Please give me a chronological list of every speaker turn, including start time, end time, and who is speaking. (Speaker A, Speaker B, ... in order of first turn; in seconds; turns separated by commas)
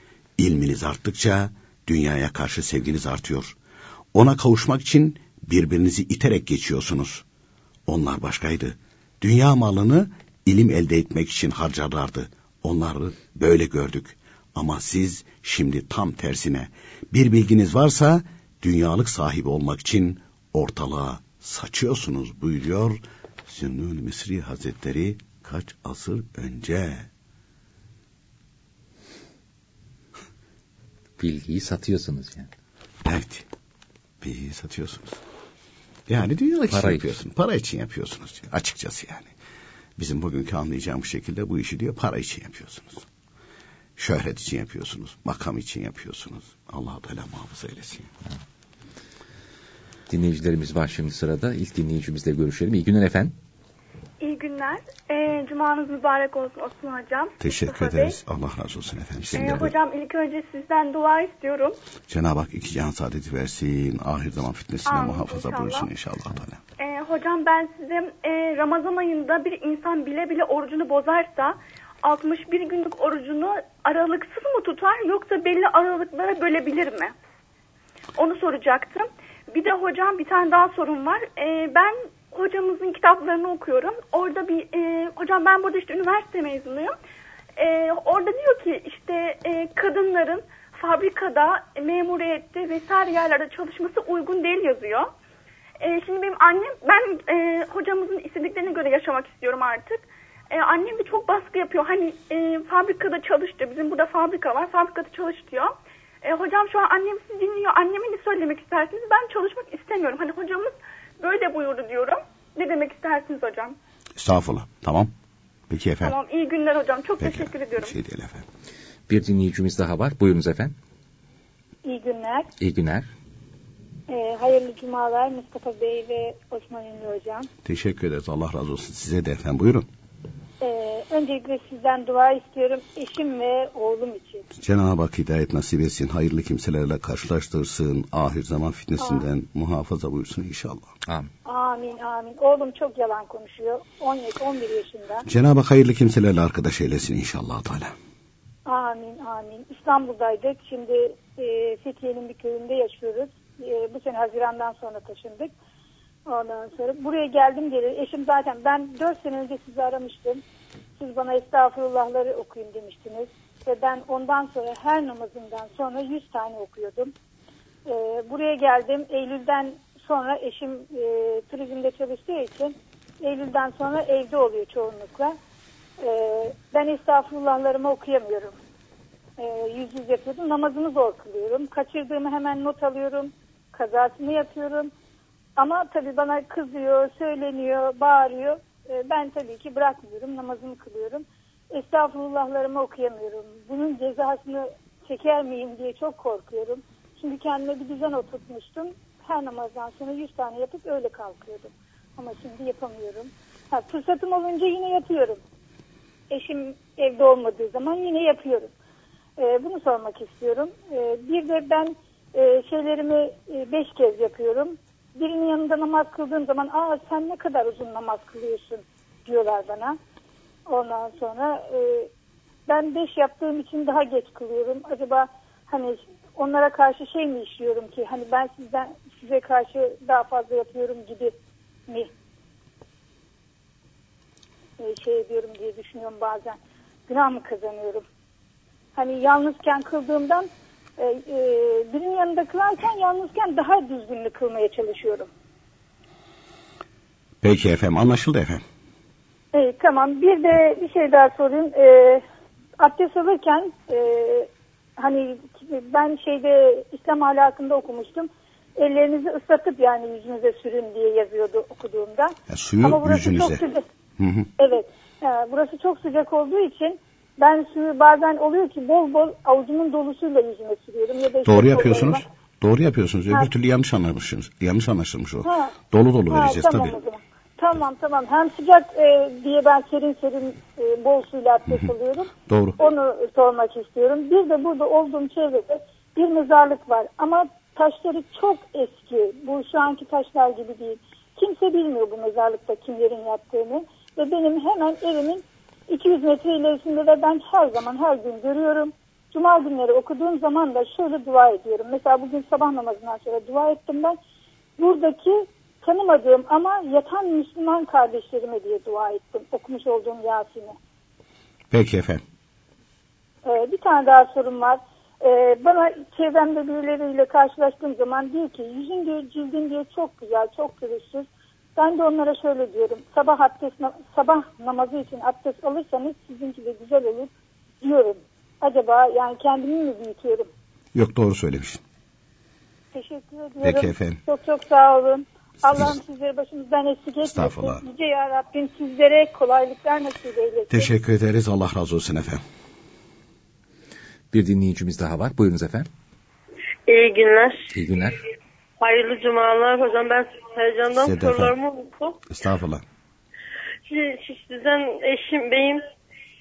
Speaker A: 0.4-3.5, Speaker A: 4.1-7.2, Speaker A: 7.8-27.1, Speaker B: 31.2-32.5, Speaker A: 33.0-33.5, Speaker A: 34.2-35.2, Speaker A: 36.1-39.3, Speaker B: 36.7-37.1, Speaker A: 40.0-43.0, Speaker A: 44.0-48.1, Speaker B: 50.1-53.3, Speaker C: 54.2-58.2, Speaker A: 57.4-59.7, Speaker C: 59.3-61.8, Speaker A: 62.1-66.6, Speaker C: 64.9-65.9, Speaker C: 66.8-77.1, Speaker C: 78.2-86.9, Speaker C: 87.6-95.1, Speaker C: 95.8-113.8, Speaker A: 114.2-115.1, Speaker A: 115.7-116.1, Speaker C: 116.0-117.9, Speaker A: 117.2-118.5, Speaker B: 119.1-120.7, Speaker D: 121.8-122.5, Speaker B: 122.6-123.1, Speaker D: 124.1-127.5, Speaker A: 127.6-129.9, Speaker D: 130.6-134.4, Speaker A: 134.6-140.9, Speaker D: 139.0-139.2, Speaker D: 141.4-145.3, Speaker A: 145.2-147.9, Speaker D: 148.7-155.5, Speaker D: 156.3-160.4, Speaker D: 161.0-167.1, Speaker D: 167.9-175.3, Speaker D: 176.0-178.6, Speaker D: 179.4-184.9, Speaker D: 185.6-205.4, Speaker D: 206.3-208.7, Speaker D: 209.4-220.0, Speaker D: 220.7-222.1, Speaker D: 222.7-231.3, Speaker D: 234.8-238.0, Speaker D: 238.9-245.3, Speaker A: 247.4-248.6, Speaker D: 249.5-252.2, Speaker D: 252.8-263.8, Speaker A: 262.5-263.6, Speaker A: 264.2-264.5, Speaker D: 264.6-272.2, Speaker A: 271.4-277.0, Speaker D: 275.4-275.7, Speaker D: 276.3-304.2, Speaker A: 282.5-282.8, Speaker D: 304.8-310.8, Speaker A: 311.7-312.2, Speaker D: 313.4-330.5, Speaker A: 330.9-331.8, Speaker D: 332.9-340.9, Speaker A: 333.6-334.2, Speaker A: 337.2-337.8, Speaker A: 340.7-342.4, Speaker B: 344.3-345.9, Speaker E: 346.9-347.7, Speaker B: 347.7-348.2, Speaker E: 348.8-352.2, Speaker A: 351.0-351.6, Speaker A: 352.3-352.8, Speaker E: 353.9-355.8